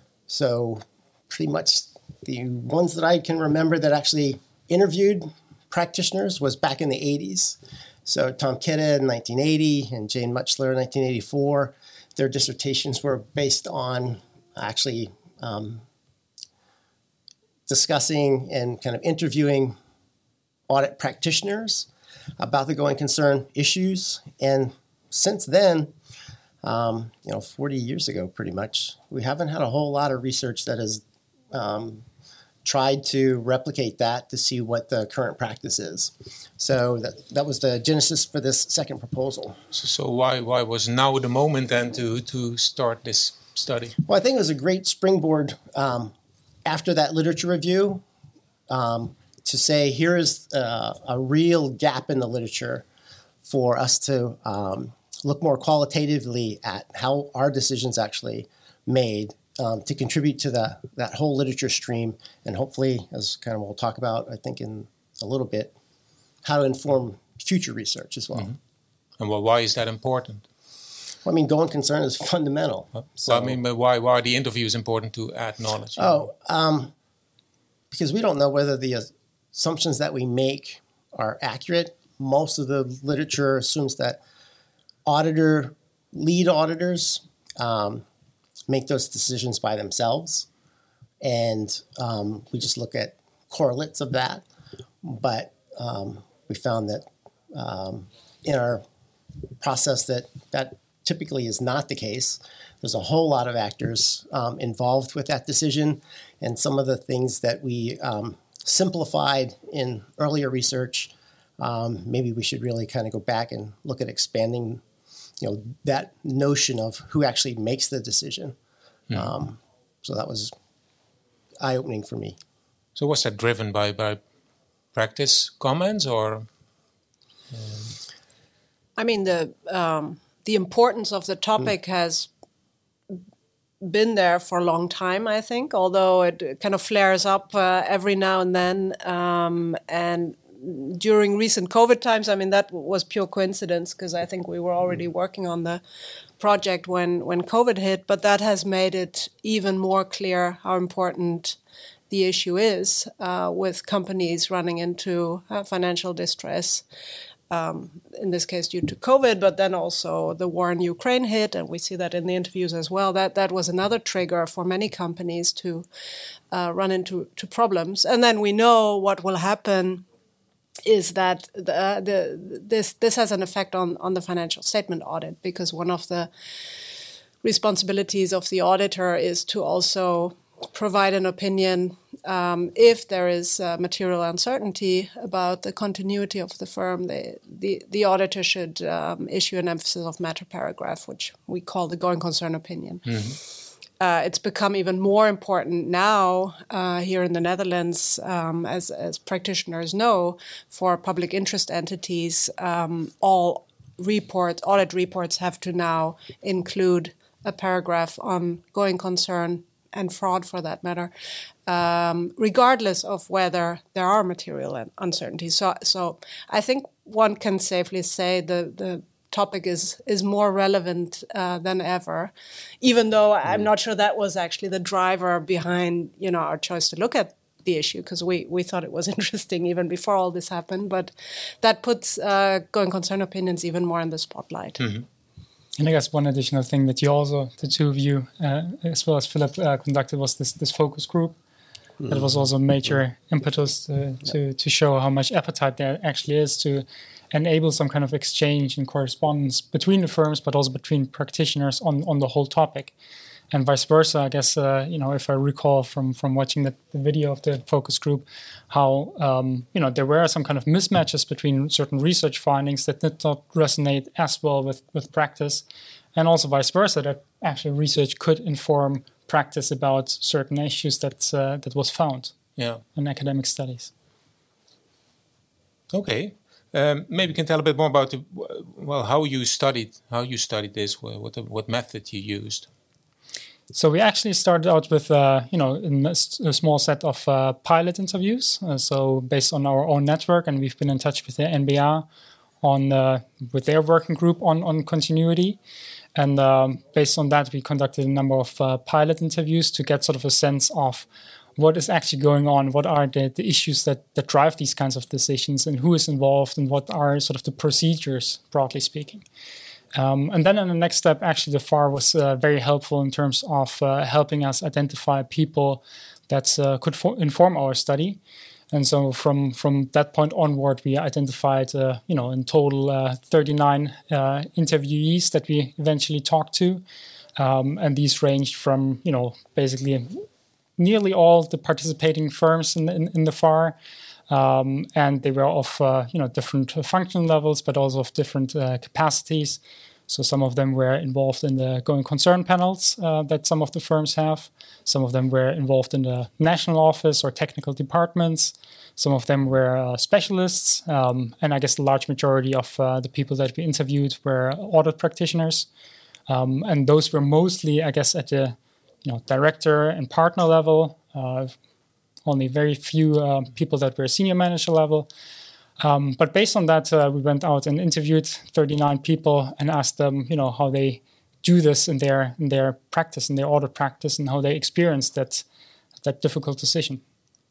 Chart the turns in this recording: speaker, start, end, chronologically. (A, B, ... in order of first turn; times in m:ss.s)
0:00.3-0:15.8 A
0:17.7-0:19.8 A
0:20.7-0:21.9 A
0:22.4-0:25.9 A
0:26.6-0:32.0 A
0:32.6-0:39.6 A
0:39.7-0:44.0 B
0:44.1-0:46.1 A
0:46.6-0:48.0 A
0:48.7-0:52.8 A
0:53.4-1:05.7 A
1:06.4-1:08.5 A
1:09.2-1:10.4 B
1:11.2-1:13.6 A
1:13.0-1:16.2 B
1:16.0-1:16.9 A
1:17.9-1:24.2 A
1:25.1-1:28.0 A
1:28.7-1:30.5 A
1:31.2-1:34.4 A
1:35.0-1:38.8 A
1:39.6-1:54.8 A
1:55.4-1:58.6 A
1:59.1-2:00.5 A
2:01.6-2:02.4 A
2:03.0-2:04.2 B
2:04.9-2:06.5 B
2:07.5-2:07.9 B
2:09.0-2:12.3 C
2:13.8-2:25.8 C
2:26.4-2:31.6 C
2:32.1-2:36.8 C
2:37.5-2:45.9 C
2:46.5-2:50.0 C
2:50.8-2:56.3 C
2:57.4-3:13.4 C
3:14.0-3:31.1 C
3:31.7-3:54.9 C
3:54.8-3:55.0 B
3:55.8-4:01.4 D
4:02.1-4:12.9 D
4:13.5-4:32.4 D
4:32.6-4:32.8 B
4:32.9-4:33.9 D
4:35.9-4:42.7 B
4:43.7-4:52.1 D
4:52.6-4:55.6 D
4:56.2-5:01.1 D
5:01.6-5:09.2 D
5:09.9-5:18.2 D
5:18.7-5:26.8 D
5:27.4-5:30.3 D
5:30.8-5:33.8 D
5:34.3-5:55.7 D
5:56.3-6:01.6 D
6:02.3-6:05.1 D
6:05.8-6:15.4 D
6:16.0-6:17.0 D